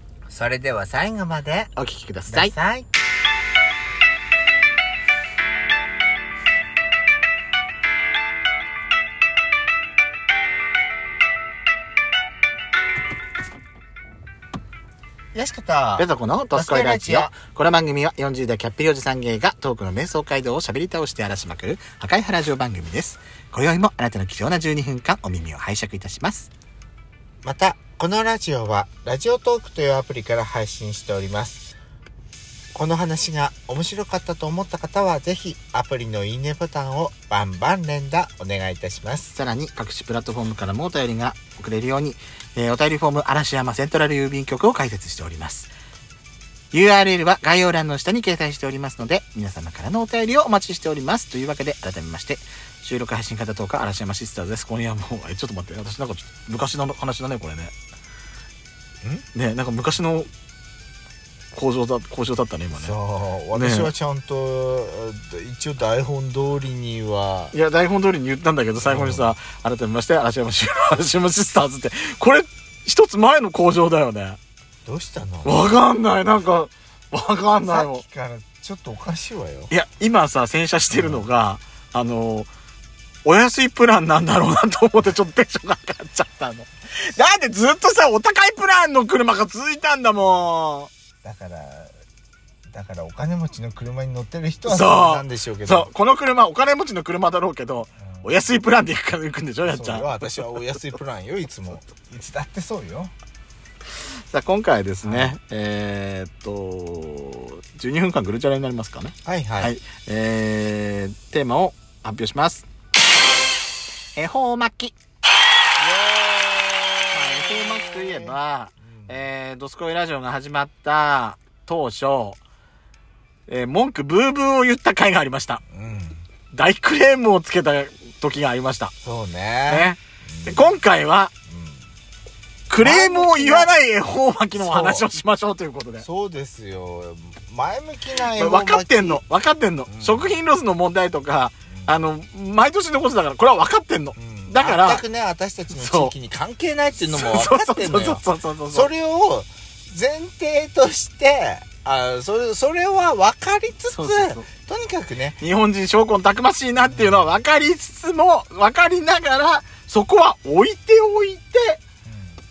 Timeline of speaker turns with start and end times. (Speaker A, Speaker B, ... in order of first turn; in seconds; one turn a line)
Speaker A: 0.3-1.7
Speaker B: 1.8-2.5
Speaker A: 2.3-2.9
Speaker A: 15.3-17.3
Speaker B: 16.0-26.5
Speaker A: 27.4-31.6
Speaker A: 32.7-39.3
Speaker B: 39.4-45.7
Speaker B: 46.7-57.7
Speaker B: 59.3-60.3
Speaker B: 61.5-63.0
Speaker A: 62.8-67.5
Speaker B: 63.5-63.9
Speaker B: 67.5-74.4
Speaker A: 68.8-69.3
Speaker A: 74.9-75.8
Speaker B: 75.4-78.0
Speaker A: 77.6-79.7
Speaker B: 79.7-82.5
Speaker A: 80.9-81.3
Speaker B: 83.2-90.9
Speaker A: 91.2-91.9
Speaker A: 92.7-95.9
Speaker B: 94.7-100.6
Speaker A: 98.0-98.4
Speaker A: 99.6-103.1
Speaker B: 104.3-112.7
Speaker A: 105.0-105.4
Speaker A: 109.2-109.7
Speaker B: 114.2-115.0
Speaker A: 115.8-119.2
Speaker B: 117.1-122.4
Speaker B: 123.5-125.6
Speaker A: 125.7-126.2
Speaker B: 126.5-128.9
Speaker A: 129.0-130.8
Speaker B: 129.7-131.3
Speaker A: 131.5-131.8
Speaker B: 132.7-136.1
Speaker A: 132.8-133.7
Speaker A: 134.6-135.1
Speaker A: 136.0-139.2
Speaker B: 138.3-145.0
Speaker A: 139.9-140.4
Speaker A: 144.2-155.4
Speaker B: 145.7-146.1
Speaker B: 147.1-148.9
Speaker B: 153.9-154.4
Speaker B: 155.4-161.8
Speaker A: 156.8-157.3
Speaker A: 162.1-162.4